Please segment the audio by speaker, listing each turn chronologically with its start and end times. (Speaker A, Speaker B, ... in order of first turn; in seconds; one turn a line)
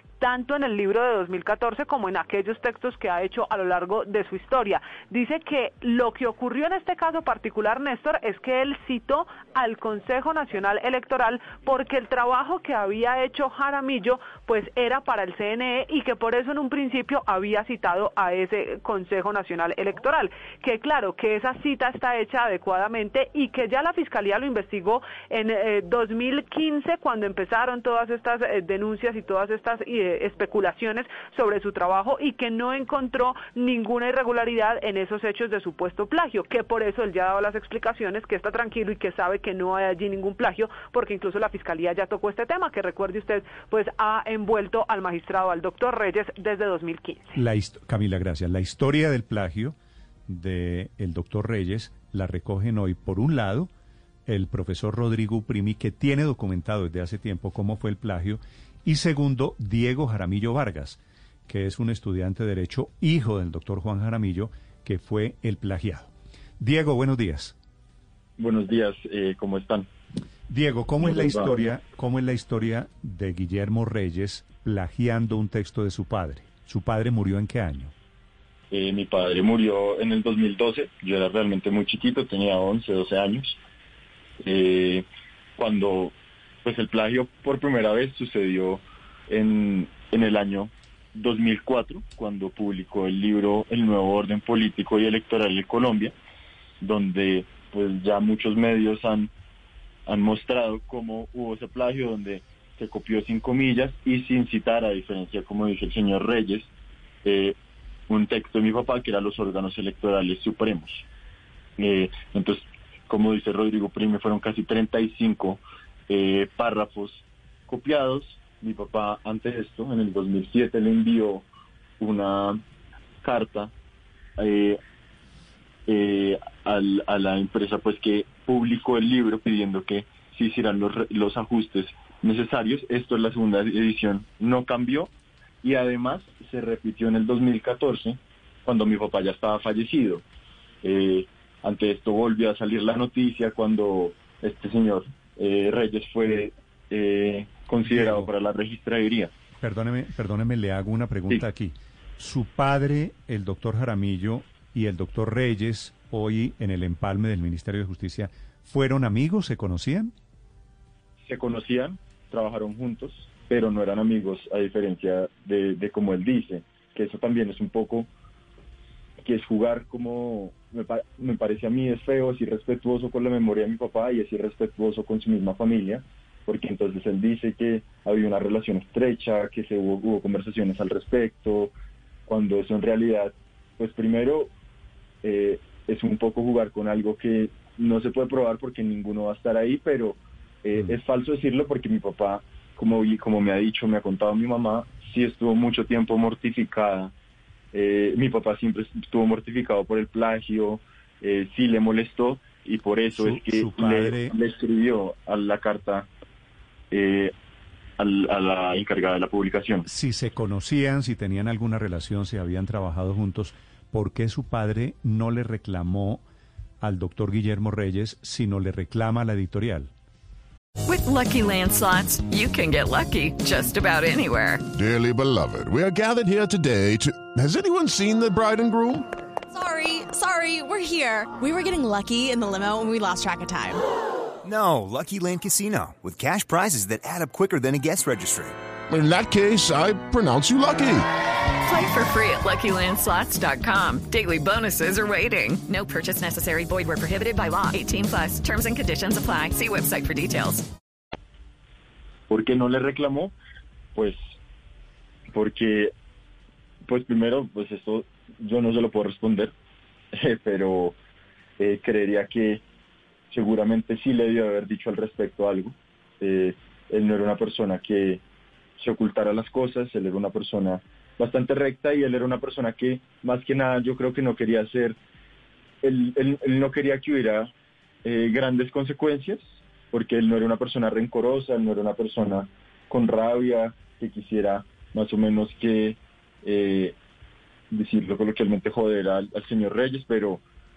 Speaker A: 0.2-47.3
Speaker B: 47.4-49.8
Speaker B: 50.3-53.7
Speaker B: 54.3-67.5
Speaker C: 68.4-69.9
Speaker B: 70.5-77.9
Speaker C: 71.0-71.7
Speaker C: 78.7-83.6
Speaker C: 84.4-85.1
Speaker C: 85.6-86.1
Speaker C: 86.7-96.1
Speaker C: 96.8-99.3
Speaker C: 100.1-106.7
Speaker C: 107.2-107.6
Speaker C: 108.1-111.1
Speaker C: 111.8-121.5
Speaker C: 122.0-122.6
Speaker C: 123.2-123.7
Speaker C: 124.4-124.8
Speaker C: 125.9-135.1
Speaker C: 135.6-140.2
Speaker C: 140.8-149.3
Speaker B: 147.8-148.3
Speaker B: 149.6-160.1
Speaker C: 161.2-168.1
Speaker C: 169.2-181.7
Speaker C: 182.3-184.5
Speaker C: 185.2-197.1
Speaker C: 197.7-206.1
Speaker B: 203.1-204.3
Speaker C: 206.9-207.3
Speaker C: 208.0-209.9
Speaker B: 209.9-216.2
Speaker B: 216.8-219.9
Speaker D: 220.9-224.7
Speaker E: 224.7-229.1
Speaker F: 229.5-233.8
Speaker G: 234.4-238.5
Speaker E: 238.9-241.1
Speaker D: 241.6-250.7
Speaker C: 252.3-253.3
Speaker C: 255.3-255.9
Speaker C: 256.9-259.5
Speaker C: 260.1-261.0
Speaker C: 261.6-262.6
Speaker C: 263.3-268.2
Speaker C: 268.8-275.0
Speaker C: 275.8-277.5
Speaker C: 278.0-287.0
Speaker C: 287.7-290.4